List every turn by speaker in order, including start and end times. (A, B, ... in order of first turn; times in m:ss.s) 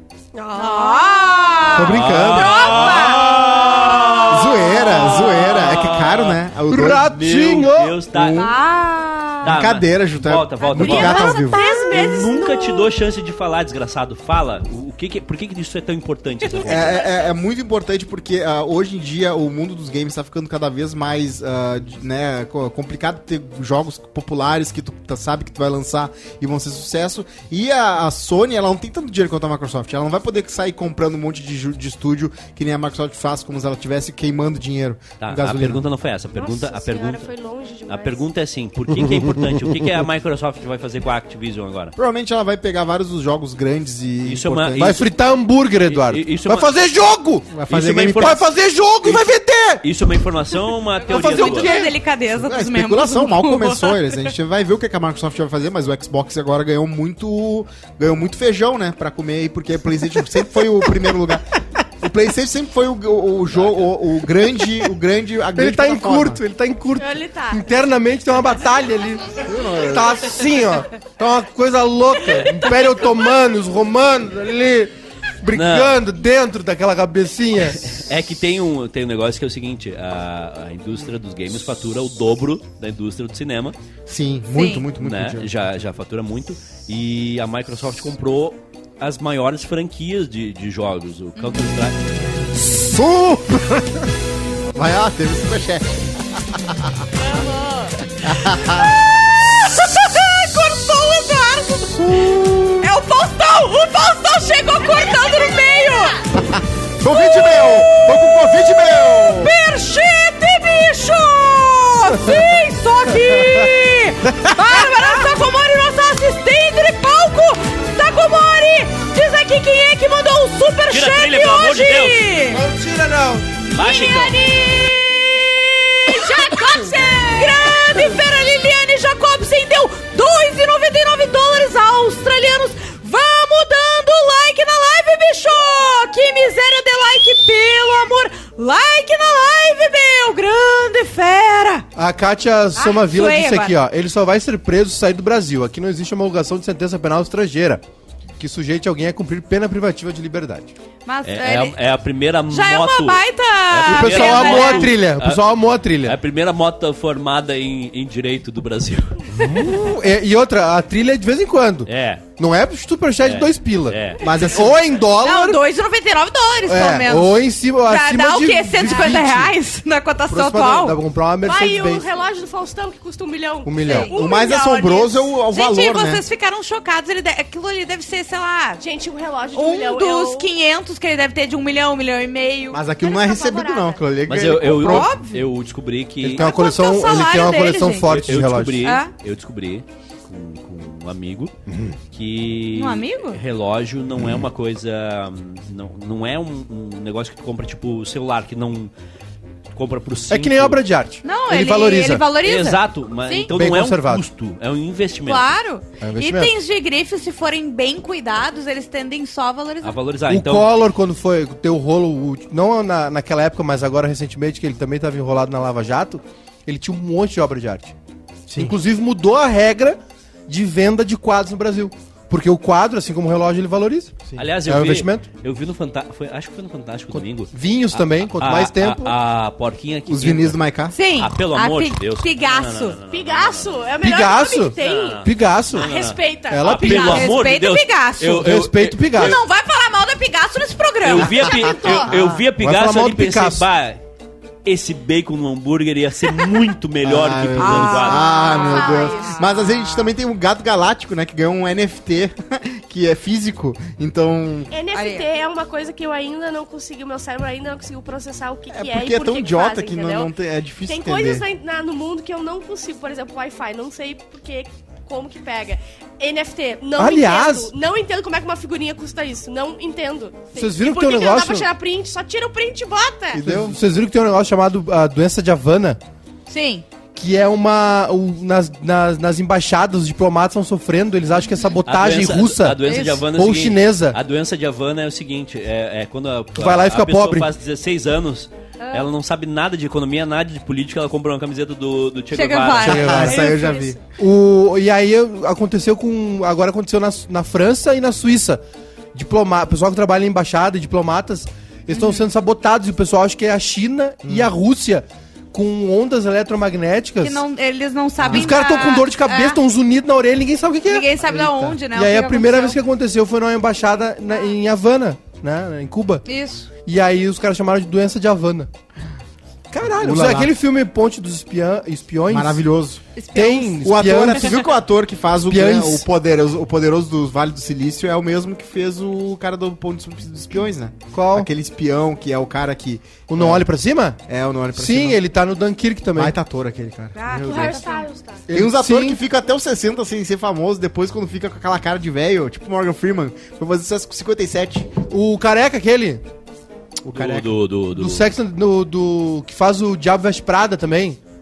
0:00.3-0:01.7 A
0:00.5-0:03.4 B
0:01.7-0:02.7 C
0:01.7-0:06.4 D
0:02.7-0:03.3 A
0:04.3-0:07.1 C
0:06.7-0:08.0 E
0:07.0-0:08.4 D
0:08.1-0:08.6 C
0:08.4-0:09.6 B
0:09.4-0:17.1 D
0:09.4-0:11.6 C
0:10.7-0:12.9 A
0:16.6-0:16.9 A
0:16.6-0:35.8 C
0:35.2-0:37.3 D
0:36.4-0:38.2 A
0:37.9-0:42.0 D
0:39.0-0:39.5 E
0:42.0-0:45.0 C
0:44.2-0:45.1 D
0:44.8-0:47.6 E
0:45.8-0:46.7 D
0:47.5-0:48.4 C
0:47.7-0:48.5 D
0:48.1-0:49.8 E
0:49.8-0:51.7 D
0:51.0-0:54.0 B
0:51.1-0:52.0 E
0:52.4-1:01.4 C
1:02.0-1:06.4 C
1:03.6-1:03.8 D
1:05.6-1:17.9 E
1:07.0-1:07.6 A
1:09.4-1:10.4 C
1:15.5-1:16.0 D
1:17.6-1:23.8 D
1:24.1-1:25.5 C
1:24.5-1:24.9 B
1:25.0-1:32.0 D
1:31.4-1:31.7 B
1:32.6-1:34.0 C
1:34.7-1:37.0 C
1:37.2-1:38.0 A
1:38.2-1:38.9 C
1:38.5-1:46.4 B
1:42.0-1:42.8 C
1:46.5-1:49.5 C
1:47.0-2:02.6 B
1:54.3-1:54.9 E
2:00.9-2:02.3 D
2:02.5-2:03.4 E
2:03.7-2:21.9 B
2:03.7-2:04.4 D
2:06.4-2:07.5 A
2:22.0-2:27.8 E
2:22.8-2:23.8 B
2:28.4-2:30.7 E
2:31.0-2:31.8 B
2:31.2-2:35.5 D
2:32.5-2:34.9 B
2:33.9-2:36.2 E
2:36.0-2:39.3 D
2:39.3-2:45.6 E
2:41.9-2:42.2 D
2:43.2-2:44.2 D
2:44.2-2:44.8 C
2:45.1-2:51.0 B
2:46.7-2:49.5 E
2:50.3-2:52.1 E
2:51.4-2:55.2 A
2:53.6-2:54.1 E
2:53.8-2:54.2 B
2:54.1-2:56.2 C
2:55.5-2:58.8 B
2:58.8-3:00.5 A
2:59.5-3:02.8 B
3:02.7-3:05.1 C
3:03.0-3:04.0 A
3:04.3-3:06.5 D
3:04.6-3:05.4 B
3:06.2-3:08.8 E
3:06.4-3:08.1 B
3:08.0-3:11.5 D
3:08.8-3:09.1 B
3:12.1-3:18.9 D
3:12.7-3:13.4 B
3:19.7-3:20.8 D
3:20.3-3:22.2 E
3:21.2-3:23.5 B
3:22.4-3:25.5 D
3:23.5-3:24.2 E
3:25.3-3:30.0 B
3:26.0-3:26.5 E
3:29.8-3:30.7 D
3:30.3-3:37.9 E
3:38.5-3:38.8 C
3:38.5-3:44.1 E
3:44.4-3:50.6 D
3:44.7-3:45.2 E
3:47.1-3:49.1 E
3:50.1-3:51.0 C
3:50.9-3:53.0 B
3:51.2-3:53.8 D
3:53.1-3:57.1 A
3:54.0-3:55.9 E
3:54.8-3:59.4 D
3:56.5-3:57.4 E
3:56.8-3:58.5 B
3:58.3-3:59.4 E
3:59.1-4:01.6 B
4:01.0-4:04.0 D
4:01.3-4:02.3 A
4:02.6-4:03.6 E
4:04.6-4:08.3 D
4:07.0-4:14.7 C
4:07.6-4:10.0 B
4:08.4-4:09.3 A
4:14.7-4:20.3 A
4:14.9-4:15.3 B
4:18.7-4:21.4 C
4:20.9-4:33.4 A
4:27.0-4:27.7 E
4:30.6-4:31.7 E
4:33.3-4:33.8 C
4:33.4-4:36.0 E
4:36.5-4:36.8 B
4:37.1-4:44.2 E
4:41.9-4:53.3 D
4:42.8-4:43.2 B
4:46.6-4:47.5 E
4:48.8-4:49.1 B
4:52.3-4:53.3 B
4:52.8-4:54.0 C
4:52.8-4:53.6 E
4:53.1-4:54.0 A
4:54.2-4:58.6 E
4:59.1-5:07.4 E
5:01.9-5:02.3 B
5:04.2-5:04.5 C
5:07.2-5:09.6 B
5:08.2-5:08.5 C
5:08.3-5:11.1 E
5:10.9-5:12.8 B
5:11.3-5:11.8 C
5:11.8-5:16.2 E
5:16.2-5:16.7 B
5:16.8-5:18.7 E
5:19.7-5:22.6 E
5:19.9-5:20.5 C
5:22.3-5:23.0 C
5:23.2-5:23.8 B
5:23.3-5:24.6 E
5:23.8-5:33.7 C
5:25.5-5:26.0 E
5:31.1-5:31.5 E
5:33.3-5:34.2 E
5:34.3-5:35.2 C
5:34.7-5:36.3 E
5:36.1-5:37.8 C
5:37.1-5:38.1 B
5:37.4-5:38.4 A
5:38.5-5:39.2 E
5:38.5-5:44.9 C
5:45.1-5:46.2 E
5:47.1-5:48.3 D
5:47.1-5:47.5 C
5:47.2-5:51.2 E